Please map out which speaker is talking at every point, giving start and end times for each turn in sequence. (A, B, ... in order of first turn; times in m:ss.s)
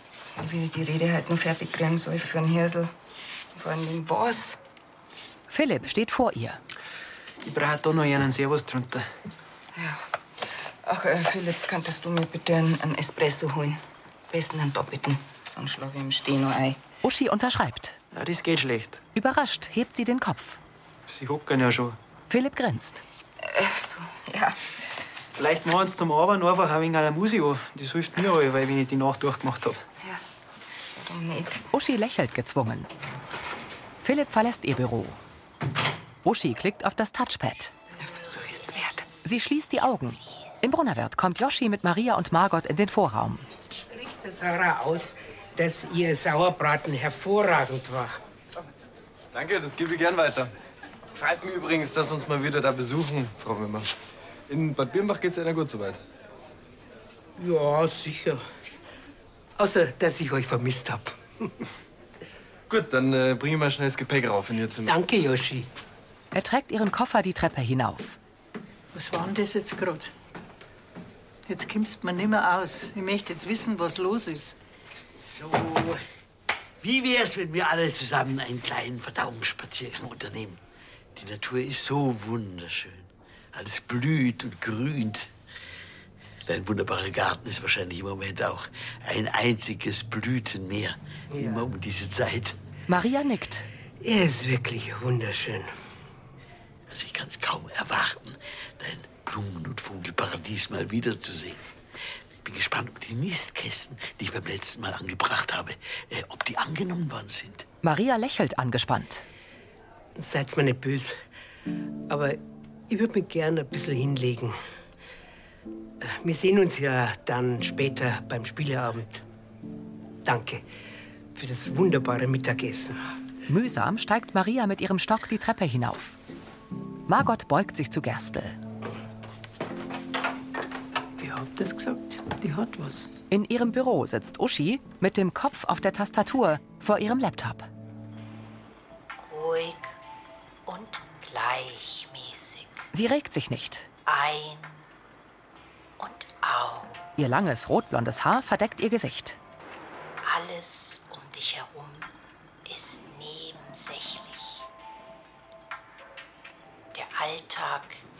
0:00.4-0:02.9 A
0:03.6-0:04.6 A
0:05.5-0:06.6 B
0:07.4-0:09.1 C
0:09.8-0:10.0 A
0:10.8-0:16.8 A
0:17.0-0:18.0 B
0:18.1-0:19.0 C
0:19.2-0:20.6 B
0:21.1-0:22.0 C
0:22.3-0:23.0 B
0:23.4-0:24.6 A
0:25.3-0:29.8 C
0:31.0-0:31.6 A
0:31.7-0:32.9 B
0:34.0-0:35.2 B
0:36.2-0:37.7 B
0:38.0-0:39.1 A
0:39.2-0:43.4 B
0:43.9-0:48.2 D
0:49.3-0:50.5 E
0:51.2-0:53.9 E
0:54.5-0:56.0 E
0:57.4-0:58.4 D
0:59.6-1:01.5 D
1:02.7-1:05.0 E
1:04.8-1:05.7 D
1:06.3-1:08.2 B
1:08.9-1:10.1 F
1:11.5-1:14.6 F
1:15.3-1:16.0 G
1:16.8-1:20.6 G
1:21.2-1:25.3 G
1:26.5-1:32.5 G
1:31.3-1:31.7 D
1:32.9-1:33.7 B
1:34.0-1:35.7 D
1:36.9-1:41.6 G
1:42.4-1:47.6 G
1:47.8-1:49.2 B
1:50.2-1:51.2 D
1:52.1-1:52.4 D
1:52.9-1:54.6 D
1:56.0-1:59.2 D
2:00.2-2:00.6 D
2:01.4-2:03.0 D
2:03.5-2:06.2 B
2:07.1-2:08.6 B
2:11.2-2:13.0 F
2:13.3-2:17.7 B
2:19.2-2:20.0 H
2:20.7-2:22.9 H
2:22.9-2:23.9 B
2:24.1-2:24.8 H
2:26.0-2:27.0 H
2:27.2-2:29.4 B
2:30.2-2:32.1 H
2:32.7-2:34.7 H
2:36.9-2:38.0 H